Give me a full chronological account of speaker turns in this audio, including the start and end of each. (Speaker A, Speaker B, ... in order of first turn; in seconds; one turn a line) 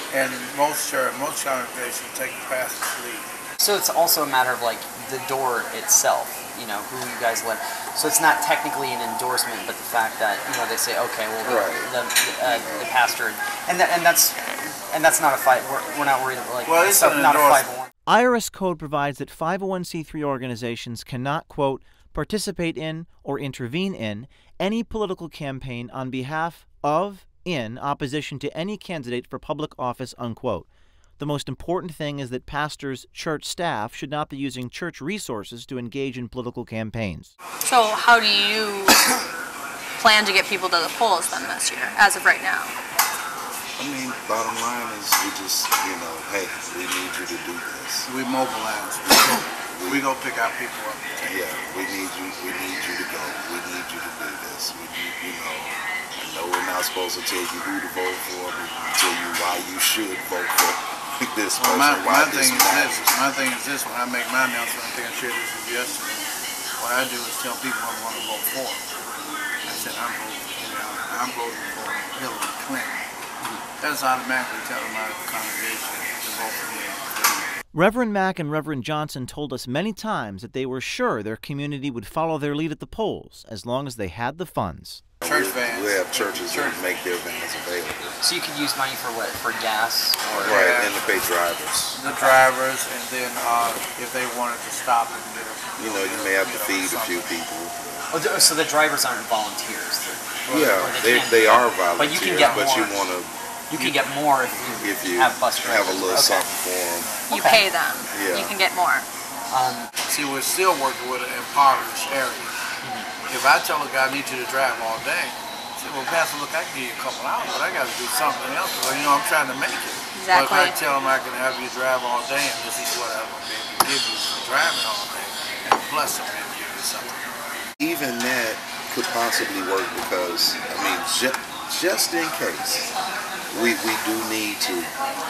Speaker A: 0.1-3.3
Speaker B: 3.6-17.9
Speaker C: 11.4-12.9
Speaker A: 16.6-17.7
Speaker D: 18.1-30.7
Speaker D: 31.2-37.3
Speaker E: 37.7-39.1
Speaker E: 40.0-42.8
Speaker C: 43.8-48.1
Speaker A: 48.1-51.4
Speaker C: 49.4-50.1
Speaker C: 51.2-63.2
Speaker A: 61.6-66.2
Speaker A: 66.8-68.8
Speaker A: 69.7-73.1
Speaker A: 73.8-77.5
Speaker D: 77.7-85.0
Speaker C: 85.2-88.2
Speaker A: 85.2-86.8
Speaker B: 88.2-90.6
Speaker A: 90.3-91.2
Speaker C: 90.4-92.0
Speaker A: 91.9-97.4
Speaker B: 92.1-92.4
Speaker C: 95.8-98.2
Speaker B: 98.1-103.0
Speaker A: 100.5-100.8
Speaker C: 100.5-103.3
Speaker A: 102.4-102.7
Speaker B: 103.7-106.5
Speaker A: 103.7-104.0
Speaker C: 104.8-107.3
Speaker E: 107.3-109.1
Speaker B: 107.3-107.7
Speaker C: 108.1-108.6
Speaker B: 109.5-109.9
Speaker A: 110.1-112.5
Speaker B: 112.8-113.1
Speaker A: 113.3-127.3
Speaker E: 120.2-120.8
Speaker C: 127.8-132.9
Speaker C: 133.5-134.9